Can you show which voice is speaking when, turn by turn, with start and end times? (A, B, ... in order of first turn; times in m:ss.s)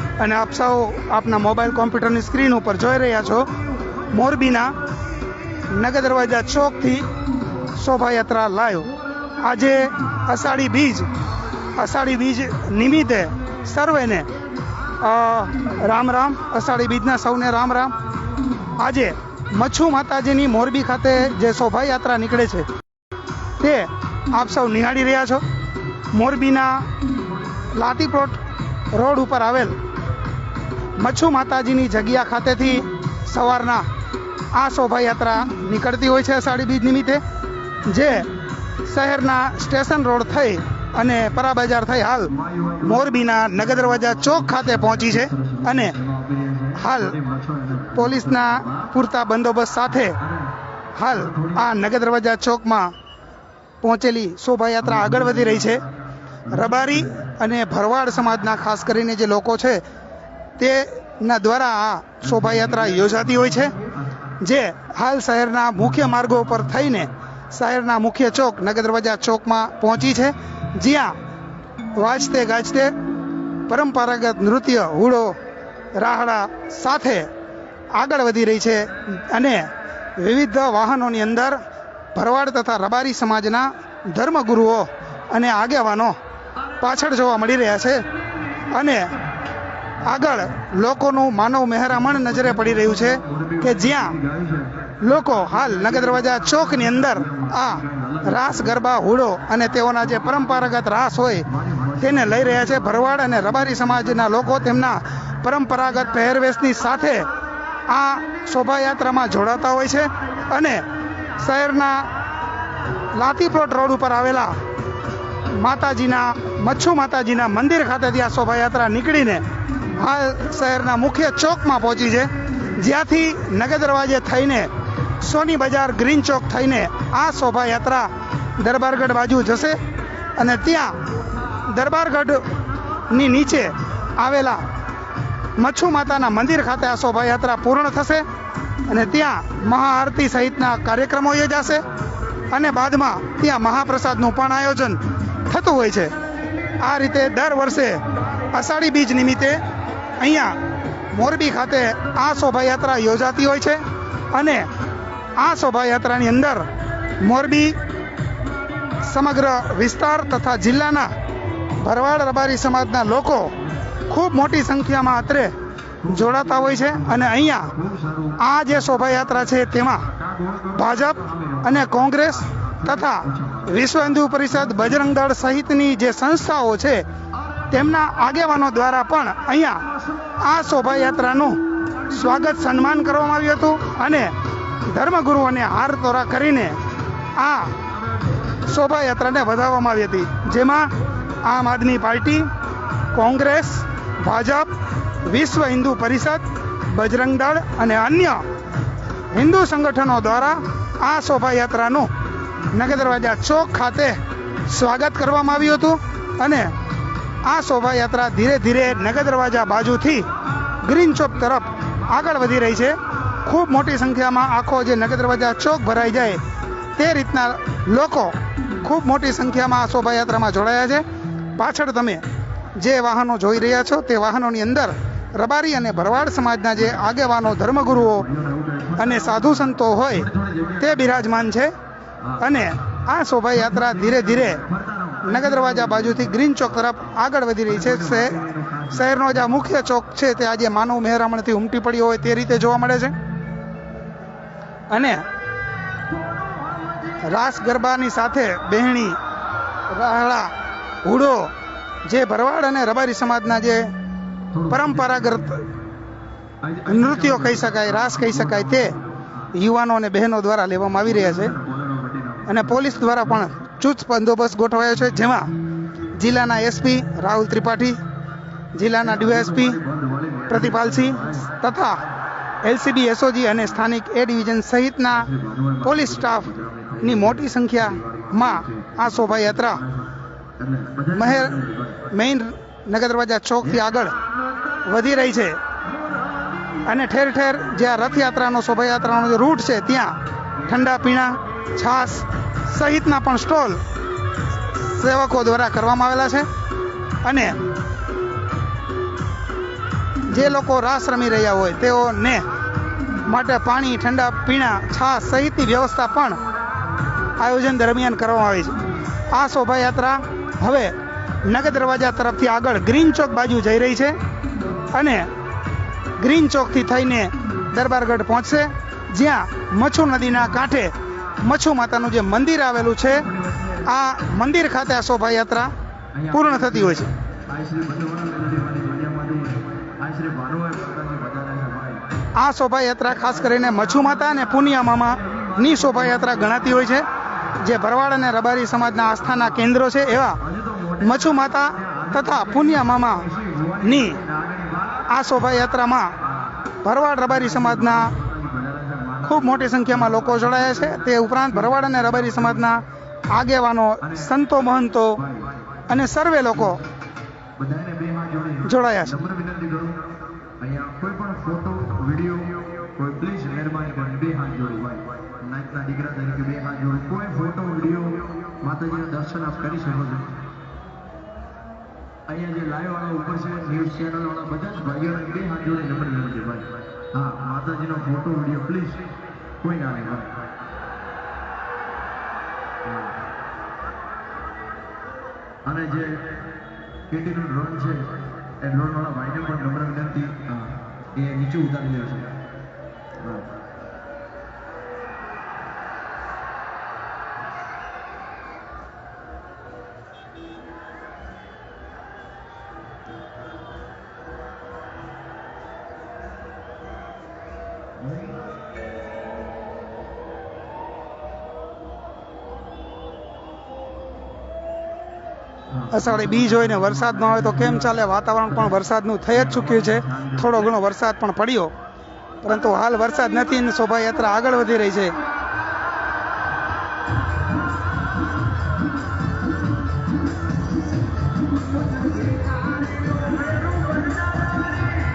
0:00.2-0:03.5 A
0:04.1-0:04.7 A
0:05.7-0:07.1 A
0:07.8-0:11.1 A
0:11.7-0:14.3 A
0:15.0-0:17.9 A
0:18.8-0:22.7 A
0:23.6-0:25.4 A
0:26.1-0:26.9 A
0:27.7-0:28.4 A
0:28.9-0:29.8 A
0:31.0-0:33.9 A
0:34.5-0:37.2 A
0:37.8-0:38.3 A
0:38.8-0:45.9 A
0:42.4-0:42.9 B
0:44.0-0:48.8 B
0:46.7-0:47.2 A
0:47.9-0:50.2 A
0:50.9-0:52.9 A
0:51.1-0:51.6 B
0:53.8-0:55.8 A
0:54.9-0:55.8 B
0:56.5-0:59.8 A
0:56.6-0:57.1 B
1:00.6-1:03.7 A
1:02.4-1:03.3 B
1:04.4-1:11.2 A
1:11.9-1:12.9 A
1:13.7-1:15.4 A
1:16.0-1:17.3 A
1:17.9-1:21.6 A
1:22.1-1:26.2 A
1:26.8-1:28.0 A
1:28.7-1:29.1 A
1:30.0-1:34.2 A
1:33.1-1:34.8 B
1:35.0-1:41.5 A
1:36.2-1:38.5 B
1:41.6-1:42.7 B
1:42.0-1:47.3 A
1:47.9-1:52.1 A
1:53.1-1:54.6 A
1:55.5-2:09.8 A
2:10.4-2:11.0 A
2:11.6-2:12.5 A
2:13.1-2:14.6 A
2:15.6-2:18.2 A
2:18.9-2:21.8 A
2:22.5-2:26.1 A
2:26.8-2:29.6 A
2:30.2-2:30.6 A
2:31.1-2:34.7 A
2:35.4-2:36.7 A
2:37.2-2:37.8 A
2:39.0-2:41.1 A
2:41.8-2:43.5 A
2:44.1-2:45.5 A
2:46.0-2:48.4 B
2:46.0-2:47.7 A
2:48.4-2:50.1 A
2:50.4-2:51.7 B
2:50.7-2:57.0 A
2:52.9-2:53.7 B
2:57.7-2:59.8 A
3:00.4-3:04.3 A
3:04.9-3:06.8 A
3:07.4-3:07.7 A
3:08.6-3:10.9 A
3:11.4-3:12.5 A
3:13.1-3:14.7 A
3:15.2-3:18.4 A
3:19.3-3:22.1 A
3:22.7-3:26.7 A
3:27.4-3:30.3 A
3:30.8-3:36.4 A
3:37.0-3:41.0 A
3:41.6-3:42.2 A
3:42.8-3:48.3 A
3:48.2-3:49.5 B
3:49.0-3:51.7 A
3:50.1-3:51.1 B
3:52.2-3:52.6 B
3:52.4-3:54.6 A
3:53.6-3:56.2 B
3:55.2-4:03.1 A
3:57.7-3:59.2 B
4:04.9-4:05.2 A
4:07.2-4:09.2 A
4:09.9-4:11.5 A
4:12.0-4:13.9 A
4:14.5-4:15.4 B
4:14.7-4:15.6 A
4:16.6-4:19.3 B
4:16.8-4:18.9 A
4:19.5-4:21.5 A
4:21.3-4:23.2 B
4:22.5-4:25.5 A
4:26.1-4:28.0 A
4:28.7-4:29.8 A
4:29.0-4:31.6 B
4:30.5-4:32.0 A
4:32.6-4:35.3 A
4:35.1-4:42.1 B
4:35.8-4:39.8 A
4:41.1-4:44.2 A
4:44.8-4:45.6 A
4:46.8-4:53.8 A
4:54.7-4:56.5 A
4:57.2-4:57.6 A
5:00.3-5:02.4 A
5:03.2-5:06.4 A
5:07.4-5:08.8 A
5:09.3-5:14.2 A
5:14.9-5:15.3 A
5:16.2-5:23.3 A
5:23.4-5:23.8 B
5:23.8-5:25.7 A
5:26.2-5:32.0 B
5:26.3-5:27.1 A
5:32.4-5:37.0 A
5:35.2-5:36.7 B
5:37.6-5:40.4 A
5:40.4-5:45.1 B
5:41.0-5:43.3 A
5:43.8-5:44.2 A
5:45.1-5:46.2 A
5:46.8-5:48.1 A
5:47.3-5:49.4 B
5:49.2-5:55.2 A
5:50.0-5:52.0 B
5:54.0-5:54.3 B
5:55.2-5:55.5 B
5:55.9-5:56.8 A
5:57.6-6:00.0 B
5:58.6-5:59.2 A
6:00.6-6:10.3 B
6:12.3-6:19.1 B
6:19.6-6:20.3 B
6:25.6-6:26.2 B
6:27.1-6:32.3 B
6:55.7-6:58.0 B
6:55.9-7:01.7 A
6:59.3-7:00.7 B
7:02.4-7:05.2 A